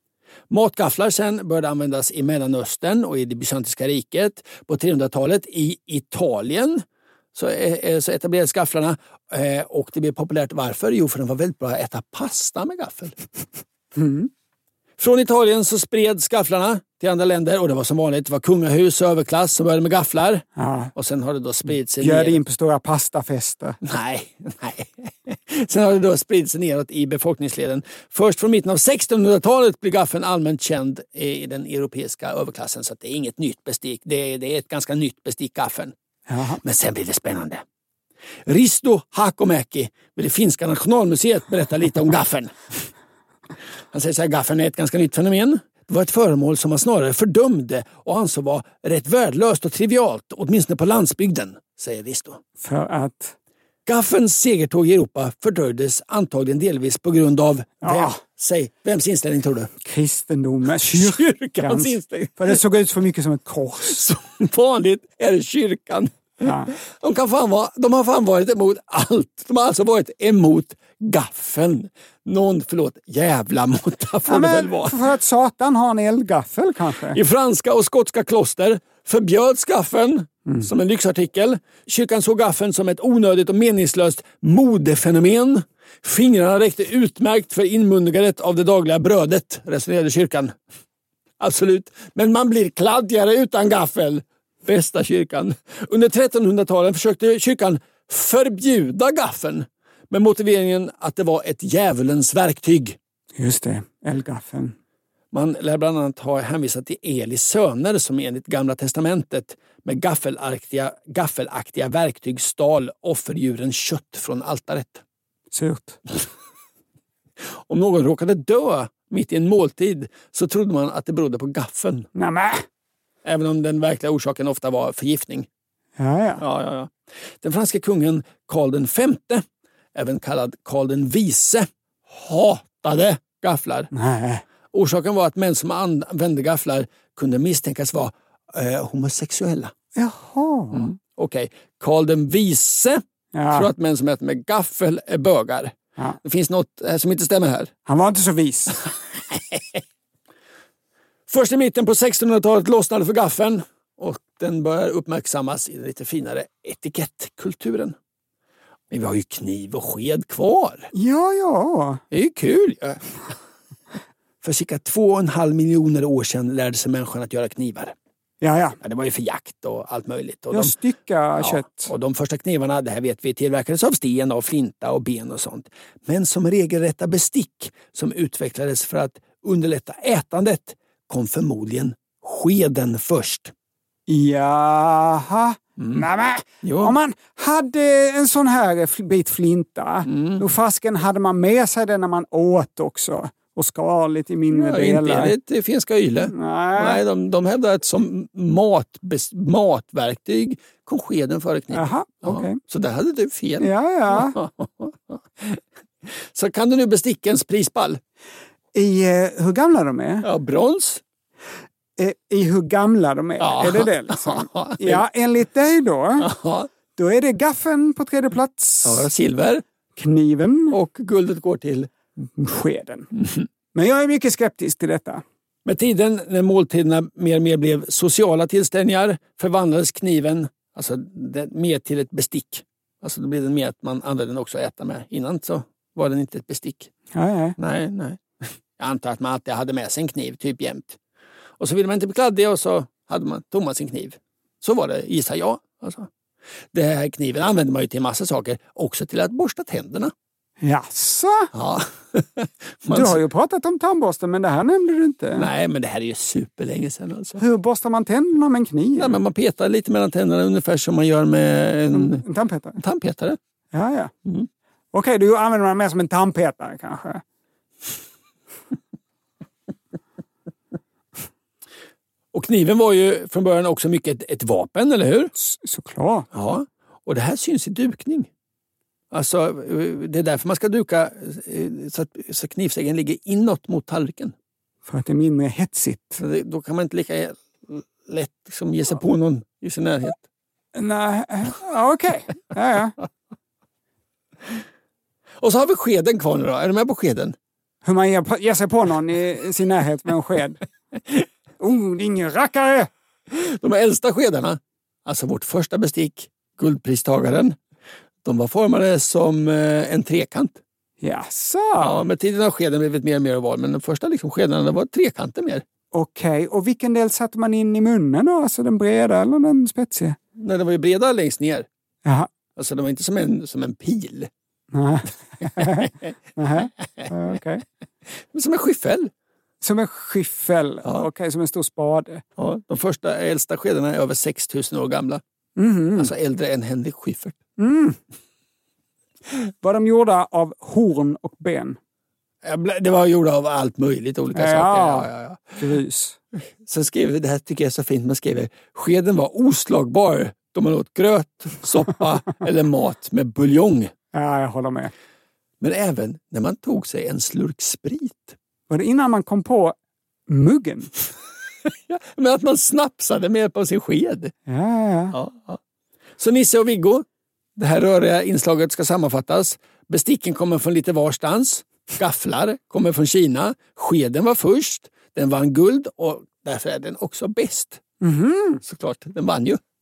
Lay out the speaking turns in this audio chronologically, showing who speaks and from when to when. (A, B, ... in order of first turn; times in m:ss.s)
0:00.5-0:13.2 A
0:13.9-0:14.3 B
0:15.0-0:22.4 A
0:20.6-0:20.9 B
0:22.0-0:23.8 B
0:23.8-0:35.9 A
0:36.3-0:36.6 B
0:36.6-0:37.6 A
0:38.4-0:42.9 A
0:43.9-0:52.4 A
0:52.6-0:53.3 B
0:53.8-0:59.7 A
0:57.8-0:58.2 B
0:59.8-1:04.0 B
1:00.8-1:02.6 A
1:03.8-1:15.0 A
1:06.4-1:06.7 B
1:14.3-1:17.2 B
1:17.1-1:30.5 A
1:31.4-1:43.0 A
1:43.4-1:44.7 B
1:45.3-1:55.0 A
1:55.5-1:56.0 B
1:57.7-2:02.1 A
2:02.1-2:02.6 B
2:03.2-2:05.5 A
2:06.0-2:06.4 B
2:06.4-2:13.9 A
2:13.9-2:14.4 B
2:14.7-2:19.7 A
2:20.0-2:20.9 B
2:20.7-2:27.7 A
2:23.3-2:23.7 B
2:27.9-2:28.8 B
2:29.3-2:29.8 A
2:31.3-2:38.0 A
2:38.9-2:40.9 A
2:40.9-2:42.0 B
2:42.1-2:43.0 A
2:44.4-2:47.9 A
2:48.4-2:48.8 B
2:48.8-2:50.7 A
2:50.5-2:51.9 B
2:51.4-3:03.5 A
3:04.1-3:15.3 B
3:05.8-3:06.0 A
3:06.6-3:07.0 A
3:10.0-3:10.4 A
3:14.5-3:28.0 A
3:16.3-3:17.0 B
3:21.7-3:22.6 B
3:23.6-3:24.4 B
3:28.7-3:30.2 B
3:30.2-3:31.0 A
3:32.0-3:36.3 B
3:33.4-3:35.0 A
3:36.2-3:36.7 A
3:37.0-3:39.0 B
3:38.8-3:39.6 A
3:40.0-3:40.8 B
3:40.7-3:41.9 A
3:42.2-3:43.1 B
3:43.7-3:45.2 B
3:45.6-3:56.9 A
3:57.1-3:57.6 B
3:57.6-4:01.0 A
4:01.6-4:06.1 A
4:06.7-4:10.1 A
4:10.6-4:11.5 B
4:11.5-4:13.2 A
4:12.9-4:15.5 B
4:15.3-4:17.4 A
4:17.4-4:19.2 B
4:19.0-4:22.2 A
4:21.9-4:22.8 B
4:22.8-4:23.4 A
4:23.7-4:24.1 B
4:24.9-4:27.2 B
4:32.3-4:35.3 A
4:35.4-4:36.3 B
4:36.3-4:38.3 A
4:39.1-4:44.3 A
4:44.8-4:46.2 B
4:46.2-4:50.2 A
4:50.7-4:53.0 B
4:55.4-4:57.4 A
4:57.8-5:00.6 B
5:01.6-5:02.9 B
5:03.3-5:07.6 A
5:08.2-5:10.6 A
5:11.0-5:12.0 B
5:11.8-5:15.6 A
5:15.9-5:20.2 B
5:20.4-5:21.7 A
5:22.0-5:22.3 B
5:22.6-5:24.3 A
5:24.7-5:27.6 B
5:25.6-5:26.1 A
5:28.3-5:29.1 A
5:29.6-5:32.2 B
5:32.4-5:35.2 A
5:35.6-5:36.1 B
5:36.0-5:37.4 A
5:37.6-5:38.0 B
5:39.4-5:41.8 B
5:42.4-5:45.8 A
5:44.3-5:46.2 B
5:46.6-5:53.9 A
5:54.1-5:54.9 B
5:55.6-5:58.4 A
5:58.7-5:59.8 B
6:00.3-6:00.9 B
6:01.7-6:04.3 A
6:04.5-6:05.2 B
6:05.1-6:05.6 A
6:06.2-6:07.0 A
6:07.6-6:17.8 A
6:18.0-6:18.6 B
6:18.6-6:19.6 A